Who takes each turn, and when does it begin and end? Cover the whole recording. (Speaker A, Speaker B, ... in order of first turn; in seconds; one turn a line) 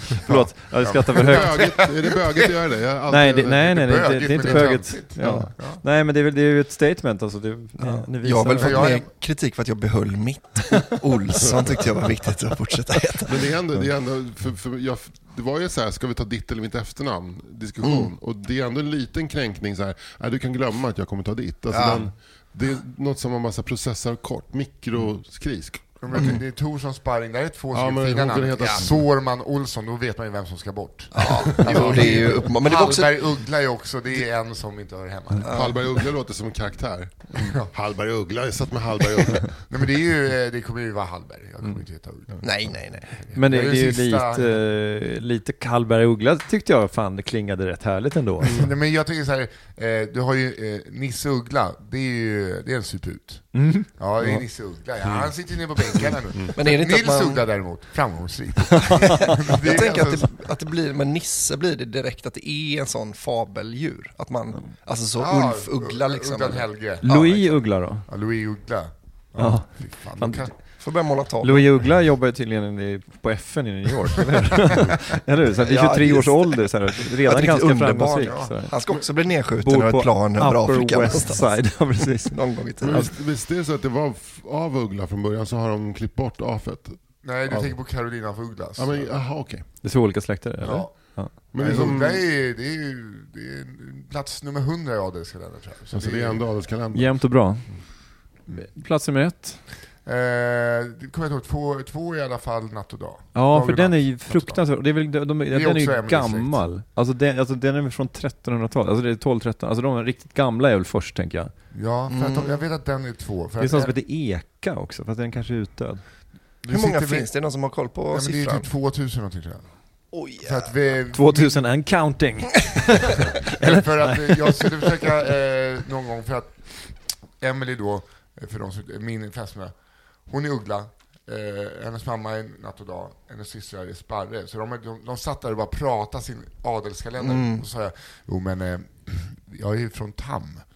Speaker A: 0.2-1.6
Speaker B: 0.2-3.9
Speaker C: 0.9-2.4
Speaker A: 3.1-8.9
Speaker C: 3.6-5.8
Speaker B: 4.4-5.5
Speaker D: 7.8-13.5
Speaker C: 8.6-9.1
Speaker B: 11.4-11.9
Speaker B: 13.2-26.4
Speaker D: 17.8-18.1
Speaker D: 21.7-22.1
Speaker C: 26.0-35.5
Speaker D: 26.1-26.4
Speaker B: 27.7-29.0
Speaker D: 28.6-28.8
Speaker D: 31.1-33.3
Speaker B: 31.6-32.4
Speaker D: 35.4-35.8
Speaker B: 35.5-39.7
Speaker C: 37.4-37.7
Speaker C: 39.7-42.5
Speaker D: 42.4-43.1
Speaker C: 43.1-44.6
Speaker A: 43.3-48.6
Speaker C: 48.4-60.3
Speaker A: 53.5-53.9
Speaker B: 55.0-56.5
Speaker D: 56.5-57.4
Speaker D: 58.9-67.2
Speaker C: 65.2-70.5
Speaker A: 67.0-68.0
Speaker A: 69.4-70.5
Speaker D: 70.8-71.7
Speaker A: 71.4-78.7
Speaker D: 75.6-83.1
Speaker C: 78.2-78.5
Speaker A: 79.6-82.4
Speaker B: 82.8-87.8
Speaker C: 87.2-89.1
Speaker B: 88.8-89.7
Speaker A: 89.8-91.9
Speaker C: 90.6-96.4
Speaker B: 91.5-92.2
Speaker B: 95.9-97.2
Speaker A: 96.9-97.7
Speaker A: 98.5-99.6
Speaker C: 100.0-104.6
Speaker A: 103.3-111.5
Speaker C: 105.5-106.6
Speaker C: 111.7-113.9
Speaker D: 112.1-112.6
Speaker A: 113.6-116.0
Speaker C: 116.6-117.3
Speaker D: 116.7-118.7
Speaker C: 118.1-119.6
Speaker D: 120.1-120.7
Speaker C: 120.4-121.5
Speaker A: 121.1-124.9
Speaker C: 123.4-126.7
Speaker C: 127.4-129.7
Speaker C: 130.3-140.6
Speaker D: 137.2-137.6